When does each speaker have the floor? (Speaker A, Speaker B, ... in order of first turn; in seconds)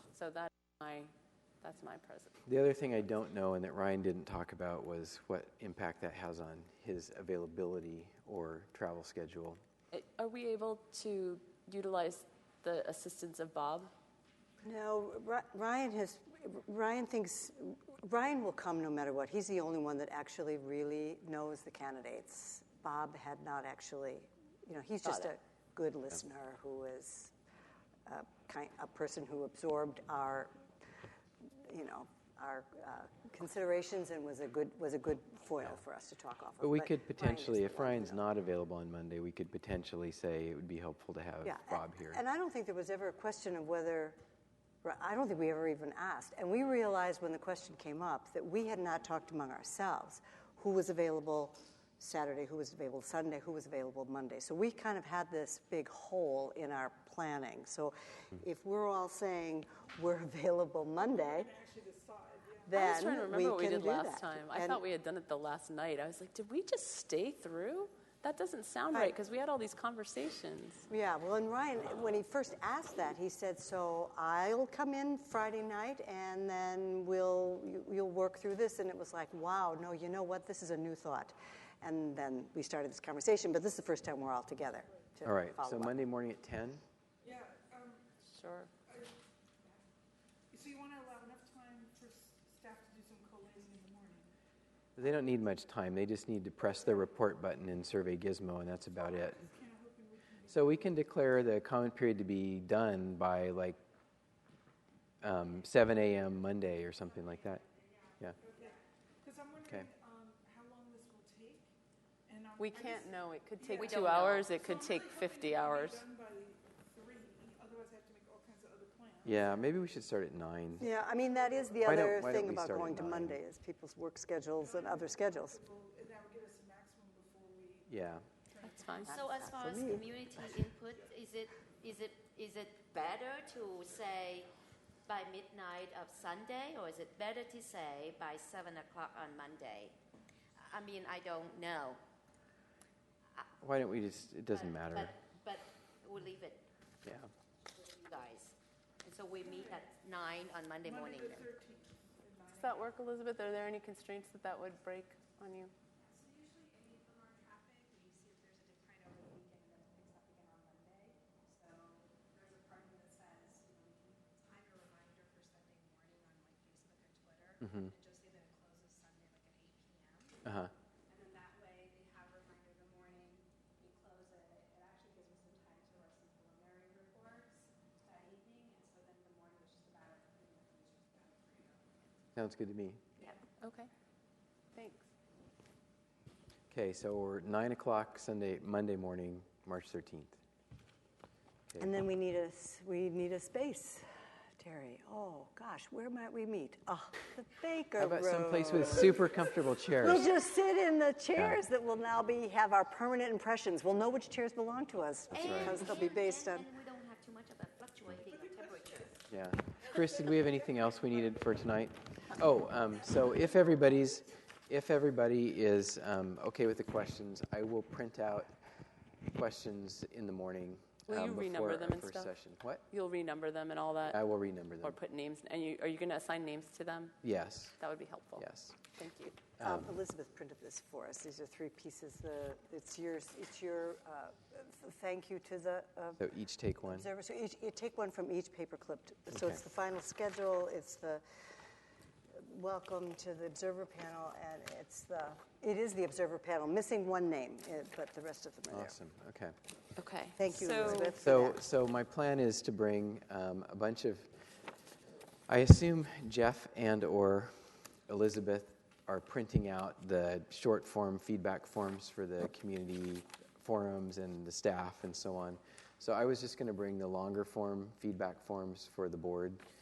Speaker A: 0.1-2.4, 9.9-13.9, 62.7-70.9, 88.3-88.7, 112.6-116.1, 128.6-129.1, 152.5-155.7, 183.6-183.9, 184.7-185.1, 221.1-222.3, 222.9-224.2, 224.8-227.2, 227.8-229.4, 249.9-251.2
Speaker B: 2.5-9.6, 36.6-42.2, 85.2-86.8, 95.0-99.5, 100.5-103.8, 105.2-107.6, 119.2-120.9, 121.8-123.4, 127.9-128.2, 143.6-145.1, 147.0-147.3, 170.4-170.7, 182.3-183.0, 186.7-190.4, 191.7-192.0, 198.0-200.3, 205.3-205.8, 209.3-218.5, 219.3-222.8, 224.1-224.9, 227.2-227.8, 228.4-228.8, 229.6-229.9, 236.2-237.1, 239.3-239.6, 248.7-249.5, 250.8-254.3, 255.5-257.5, 258.1-269.6
Speaker C: 14.6-27.3, 28.1-30.5, 31.4-38.2, 41.4-44.2, 44.8-61.5, 62.6-64.8, 70.9-86.0, 120.8-125.6, 129.0-130.6, 191.8-194.0, 194.6-199.2, 199.9-206.7, 229.6-236.3, 236.8-241.2, 242.3-248.9, 250.4-251.6
Speaker D: 61.0-62.8, 87.2-88.1, 88.9-89.8, 90.5-94.3, 99.1-100.9, 108.0-111.7, 112.3-119.8, 124.6-128.0, 128.5-129.1, 150.8-152.9, 208.2-209.2, 209.8-211.4
Speaker E: 113.7-114.5, 129.1-134.5, 135.1-139.9, 140.6-142.0, 144.5-146.7, 147.7-151.6, 205.3-209.1
Speaker F: 156.0-170.4, 171.1-182.1